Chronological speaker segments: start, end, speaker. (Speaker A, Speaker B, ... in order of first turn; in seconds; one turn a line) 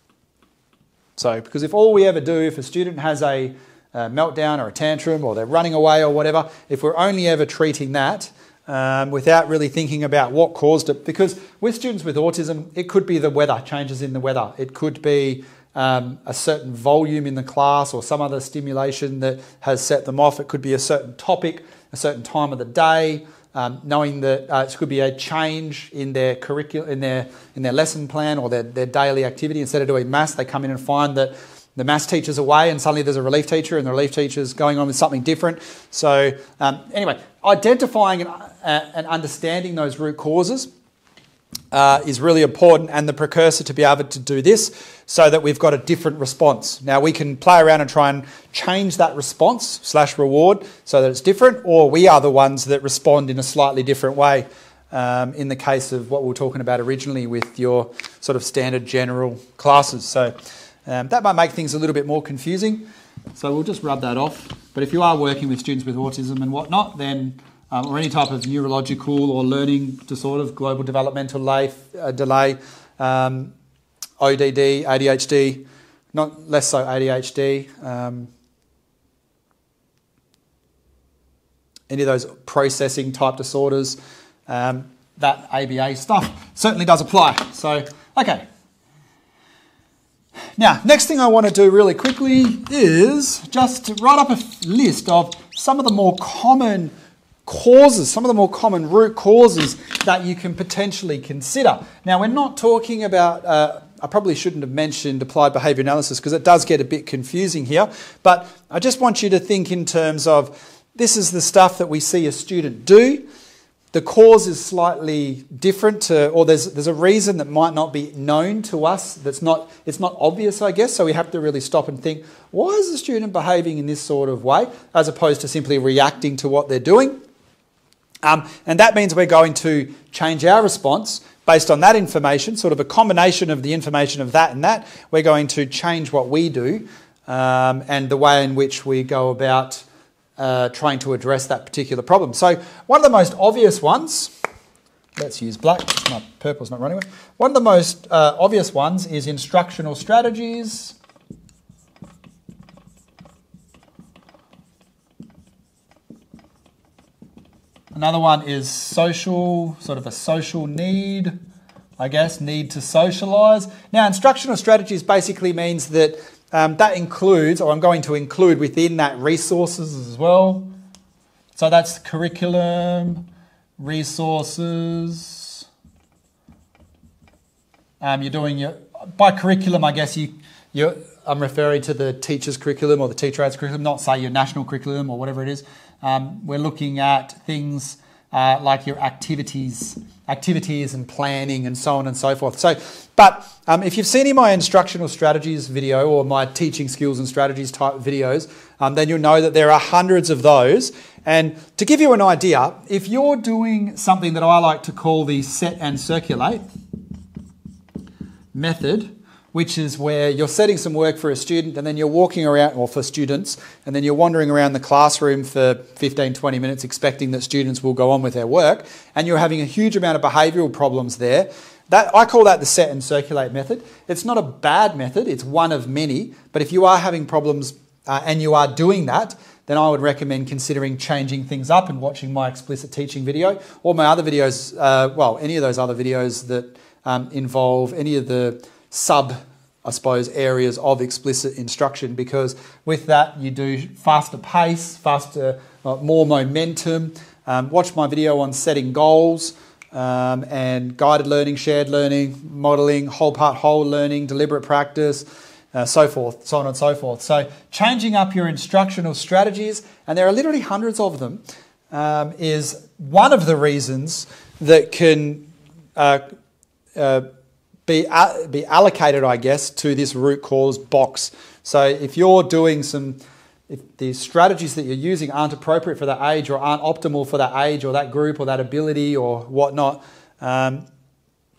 Speaker A: 1.2-40.7
Speaker A: 41.7-60.4
Speaker A: 60.9-73.5
Speaker A: 74.2-78.3
Speaker A: 81.9-88.5
Speaker A: 90.6-96.9
Speaker A: 97.5-113.2
Speaker A: 113.9-127.2
Speaker A: 128.2-139.8
Speaker A: 140.4-144.3
Speaker A: 145.2-151.0
Speaker A: 157.9-161.4
Speaker A: 162.0-170.7
Speaker A: 171.6-173.3
Speaker A: 173.8-175.7
Speaker A: 178.0-206.7
Speaker A: 208.5-266.2
Speaker A: 267.0-267.3
Speaker A: 267.9-280.9